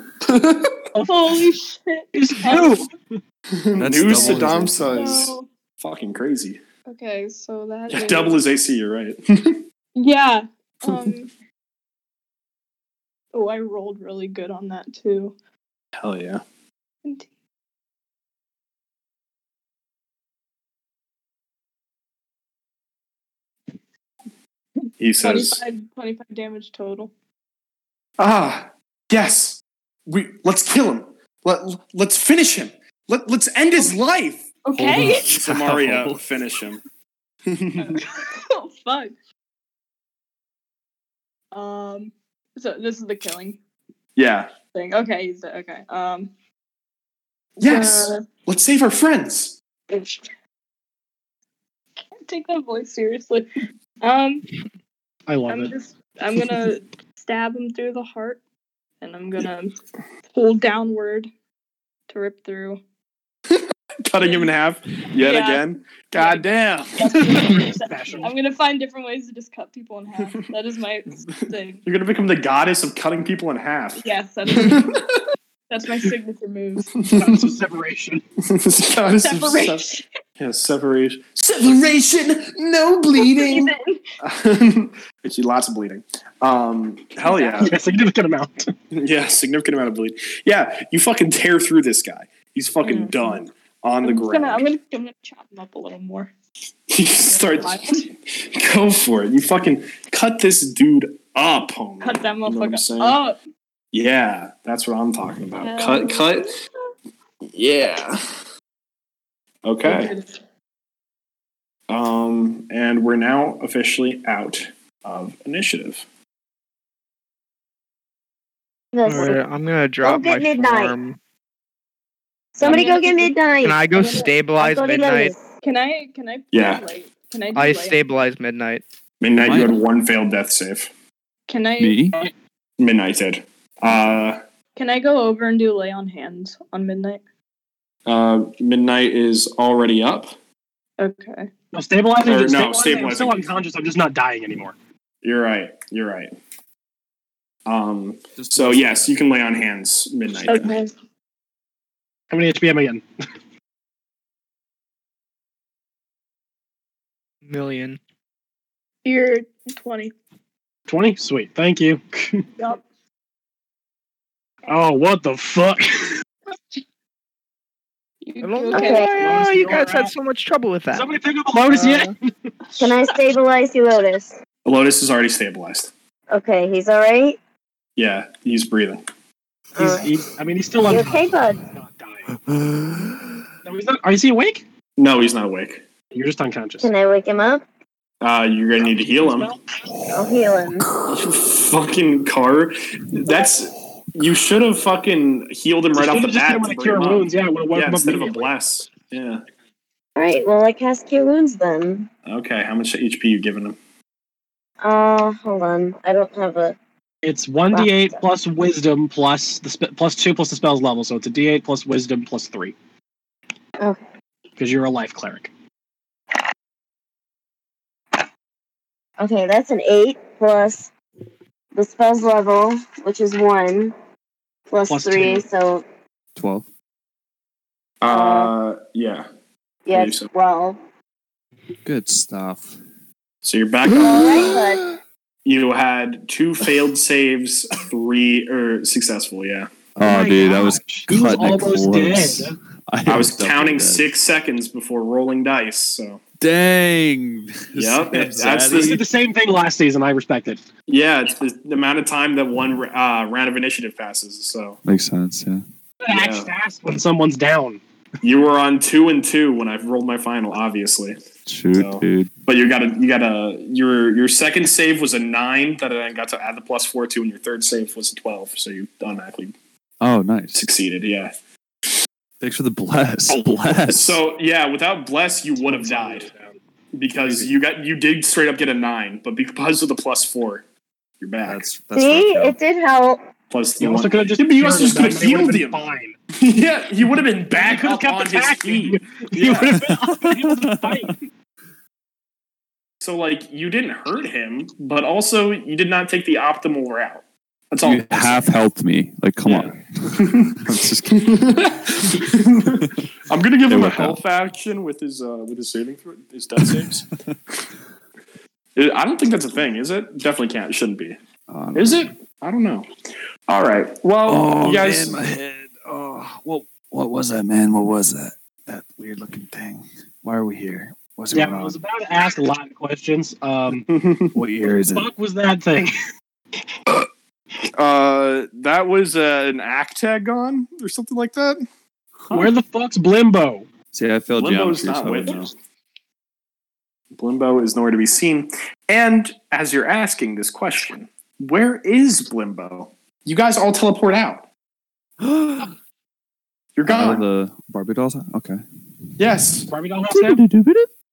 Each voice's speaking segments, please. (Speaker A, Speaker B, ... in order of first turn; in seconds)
Speaker A: 0.2-0.8, 3.5-6.6, 7.9-9.6, 10.8-11.1, 16.0-16.4, 25.0-25.6, 28.2-36.8, 37.5-37.9, 44.1-44.5, 47.6-49.6, 63.5-67.7, 71.8-75.2, 77.0-77.5, 78.5-79.8, 80.4-87.7, 88.9-94.6, 96.9-103.2, 103.9-106.5, 107.5-108.2, 109.6-110.1, 111.9-116.0, 126.5-126.8, 129.2-130.9, 132.8-134.4, 138.1-140.3, 142.2-143.5, 145.2-146.3, 147.7-150.7, 174.6-175.9, 178.0-179.0, 185.0-185.8, 188.2-189.5, 191.1-199.4, 202.2-203.8, 228.0-229.2, 229.9-230.3, 233.4-234.6, 235.4-239.7, 243.1-246.2, 247.7-249.0, 250.9-254.8, 256.1-256.5, 258.2-261.2, 261.7-269.5, 270.5-271.3, 273.9-276.3, 276.9-280.6, 281.2-281.7, 283.5-285.8, 286.4-289.8, 293.0-298.6, 299.4-307.0, 308.8-311.2, 311.7-312.9, 313.5-315.2, 323.9-324.3, 327.7-331.6, 334.4-335.5, 337.1-344.4, 346.8-347.2, 349.2-349.7
Speaker B: 0.9-1.4, 2.1-2.9, 55.3-55.7, 67.4-68.3, 77.1-78.2, 87.6-88.7, 141.7-144.8, 152.3-153.0, 160.9-162.4, 164.7-166.2, 169.2-170.1, 170.9-172.2, 179.8-182.3, 183.6-184.6, 186.1-186.9, 188.8-189.6, 195.9-198.5, 207.2-212.7, 214.6-215.5, 224.9-225.4, 240.0-242.6, 248.7-250.6, 256.0-257.8, 275.6-276.6, 283.8-286.1, 287.5-291.2, 321.3-323.9, 324.7-326.0, 332.3-333.7, 349.7-350.4
Speaker C: 1.1-2.9, 4.9-5.5, 6.9-8.4, 9.9-11.3, 13.3-15.3, 17.0-17.3, 25.2-27.1, 34.6-35.2, 37.8-39.1, 41.5-43.6, 44.7-46.3, 47.6-48.2, 49.9-50.2, 52.0-53.5, 54.0-54.5, 55.5-58.4, 59.0-59.7, 60.3-61.3, 62.1-62.8, 64.2-64.5, 65.2-71.8, 74.0-75.0, 75.7-76.9, 79.2-80.1, 83.2-84.0, 87.2-87.7, 92.8-93.4, 94.0-96.3, 97.3-98.1, 102.0-103.4, 105.5-106.6, 109.8-110.4, 122.6-123.3, 124.0-124.2, 125.6-128.0, 131.5-132.0, 134.8-137.2, 141.0-141.5, 150.4-150.9, 159.0-160.1, 168.2-169.3
Speaker D: 3.8-5.0, 34.7-36.6, 129.4-129.8, 131.8-132.2, 148.4-149.1, 182.4-183.2, 190.1-191.1, 226.3-226.7, 231.8-232.8, 233.9-234.8, 240.0-244.1, 246.4-249.0, 254.8-255.6, 261.4-262.3, 270.0-270.6, 272.4-274.2, 281.4-282.6, 289.7-291.1, 297.8-301.5, 303.7-304.2, 306.6-307.4, 311.5-312.1, 314.2-321.8, 324.3-325.1, 333.9-335.5, 345.2-345.7, 346.8-348.6, 350.1-350.9
Speaker E: 118.9-119.4, 120.0-120.9, 122.5-125.5, 168.7-169.1, 172.8-174.4, 176.3-177.4, 179.8-180.1, 180.8-181.6, 186.8-187.6, 190.1-190.9, 200.2-202.1, 204.8-206.8, 207.7-208.2, 213.8-214.1, 219.2-220.9, 221.7-223.9, 224.7-225.8, 228.1-228.5, 229.8-230.8, 234.0-234.8, 281.9-283.2
Speaker F: 119.0-121.2, 123.6-125.3, 127.5-128.8, 157.4-158.0, 168.4-171.1, 171.7-172.1